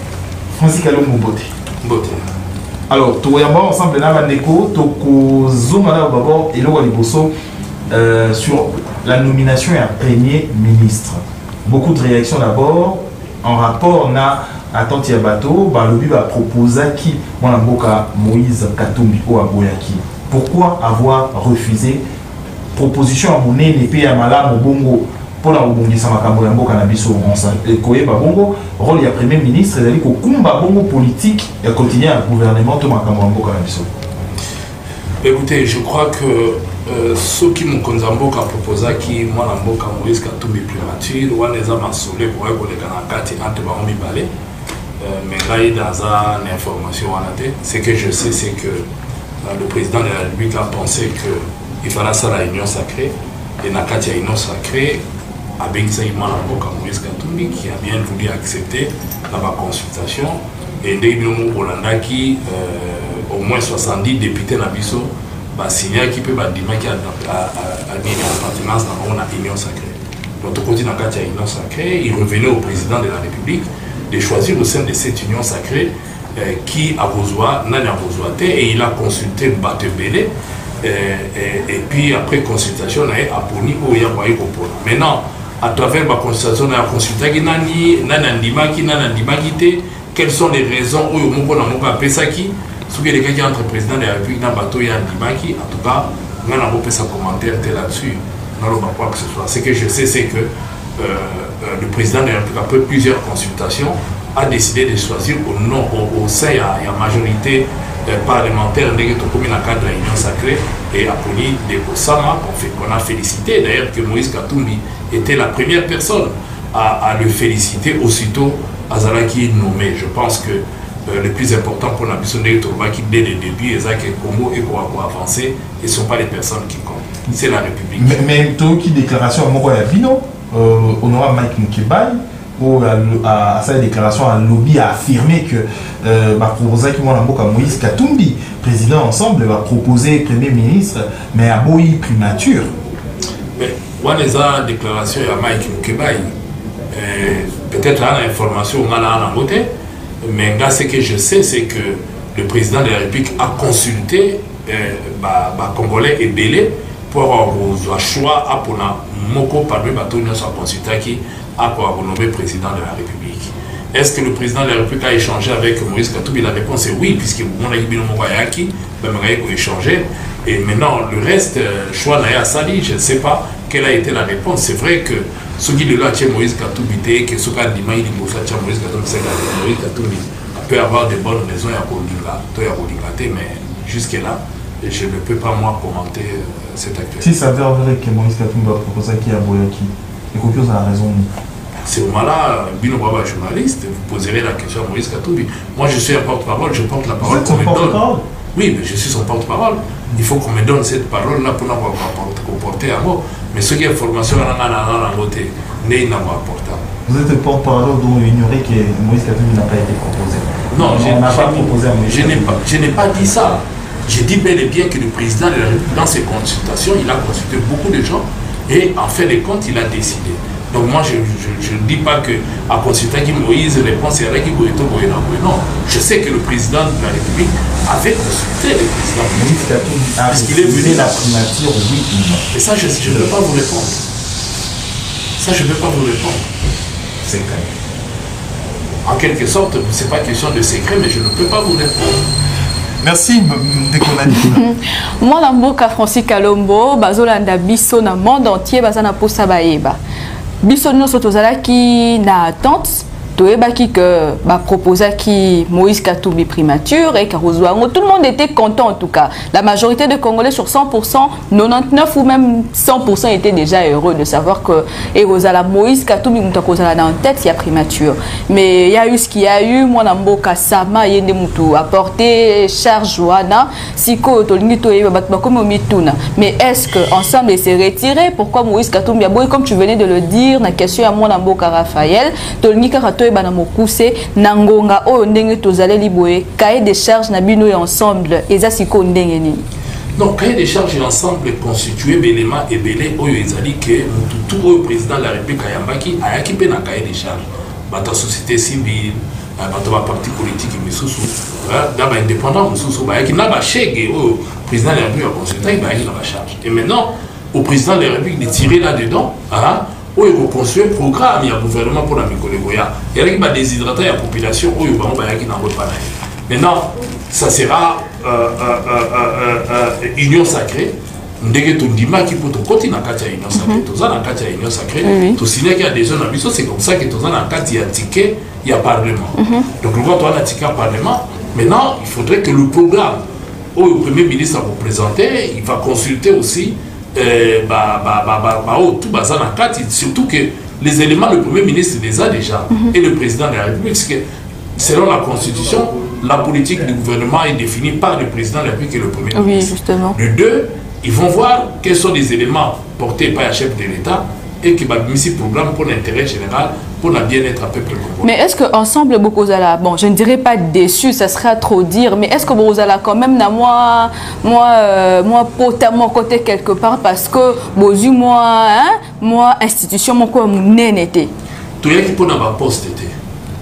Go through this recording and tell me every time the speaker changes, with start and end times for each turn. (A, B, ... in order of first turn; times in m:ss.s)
0:00.6-0:01.5 A
0:01.8-0:02.3 B
0:02.9-0:07.3 A
0:07.9-0:22.0 A
0:22.7-0:33.9 A
0:35.2-0:44.3 B
0:45.0-0:48.9 B
0:49.4-0:55.0 B
0:55.6-1:20.3 B
1:20.8-2:08.2 B
2:08.0-2:22.7 A
2:23.6-2:26.3 B
2:26.9-2:29.7 B
2:30.2-3:07.3 B
3:07.2-3:11.3 A
3:11.8-3:18.0 B
3:17.2-3:18.2 A
3:18.6-3:26.8 B
3:27.1-3:33.5 A
3:30.7-3:51.3 B
3:49.3-3:52.4 A
3:52.5-3:54.1 B
3:55.4-3:56.5 B
3:57.2-3:57.7 B
3:59.0-4:02.2 B
4:03.0-4:04.6 A
4:04.5-4:10.0 C
4:10.6-4:49.6 C
4:50.2-5:33.2 B
5:23.6-5:23.8 C
5:25.0-5:25.4 C
5:29.4-5:29.6 C
5:33.8-5:44.2 B
5:44.8-5:58.3 B
5:49.4-5:50.2 C
5:58.2-6:11.3 C
6:11.8-6:13.1 B